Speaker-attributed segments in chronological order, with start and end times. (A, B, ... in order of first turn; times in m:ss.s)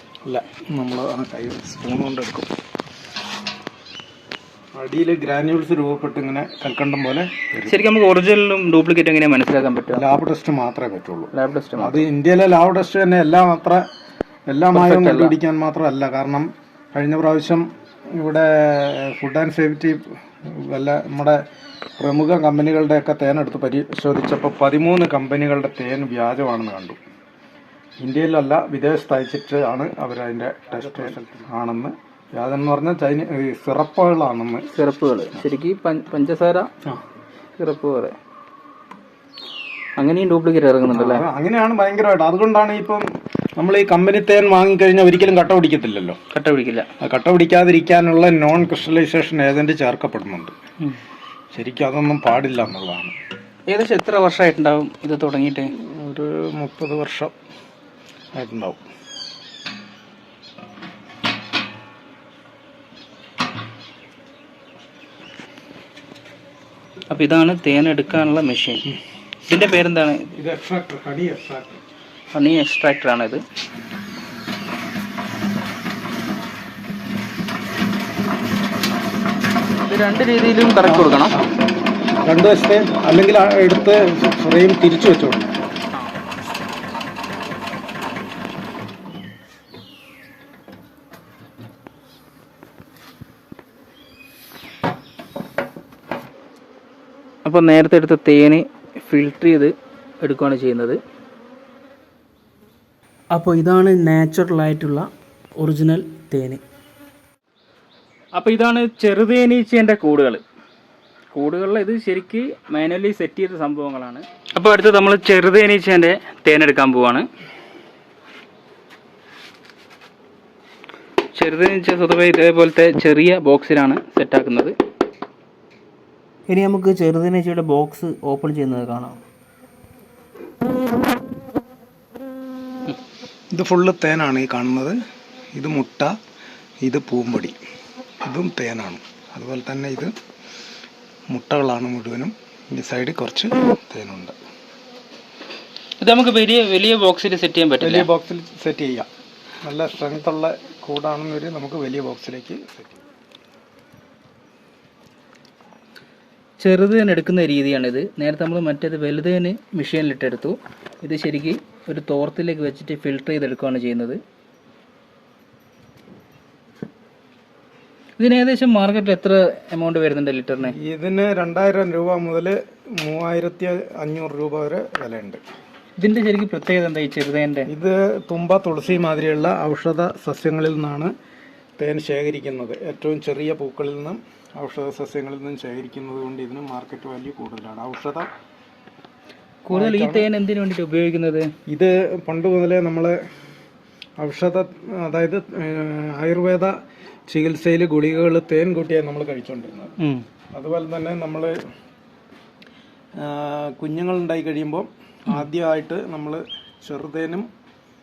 0:00.2-0:02.5 A
0:04.7-0:07.8 A
0:07.6-0:10.1 B
0:09.9-0:13.9 A
0:11.3-0:12.0 B
0:14.5-0:21.4 A
0:14.7-0:15.4 B
0:22.0-0:27.0 A
0:28.0-0:34.7 A
0:34.7-0:36.7 B
0:37.6-0:38.2 B
0:40.0-0:41.2 B
0:40.9-0:43.0 A
0:43.6-0:46.2 A
0:46.3-0:46.9 B
0:47.0-0:50.6 A
0:51.5-0:53.1 A
0:53.7-0:55.7 B
0:55.8-0:57.3 A
0:58.4-0:58.8 A
1:07.1-1:08.9 B
1:09.4-1:10.4 B
1:10.4-1:11.8 A
1:12.3-1:13.4 B
1:19.8-1:21.4 B
1:20.8-1:21.6 A
1:22.2-1:25.6 A
1:37.4-1:41.0 B
1:43.3-1:46.6 B
1:48.3-1:50.4 B
1:51.3-1:57.3 B
2:01.4-2:04.8 B
2:06.5-2:09.2 B
2:13.5-2:15.0 A
2:15.5-2:16.2 A
2:16.8-2:17.6 A
2:18.2-2:20.1 A
2:21.3-2:24.4 A
2:26.0-2:28.1 B
2:27.8-2:29.1 A
2:29.6-2:33.0 A
2:36.6-2:44.2 B
2:48.2-2:50.8 B
2:50.7-2:55.4 A
2:56.0-2:57.7 B
2:57.7-3:01.1 A
3:01.8-3:08.3 A
3:09.6-3:11.5 B
3:09.7-3:10.3 A
3:11.7-3:13.2 A
3:14.2-3:16.8 A
3:17.3-3:20.0 A
3:20.0-3:20.2 B
3:20.5-3:21.6 A
3:23.2-3:27.5 A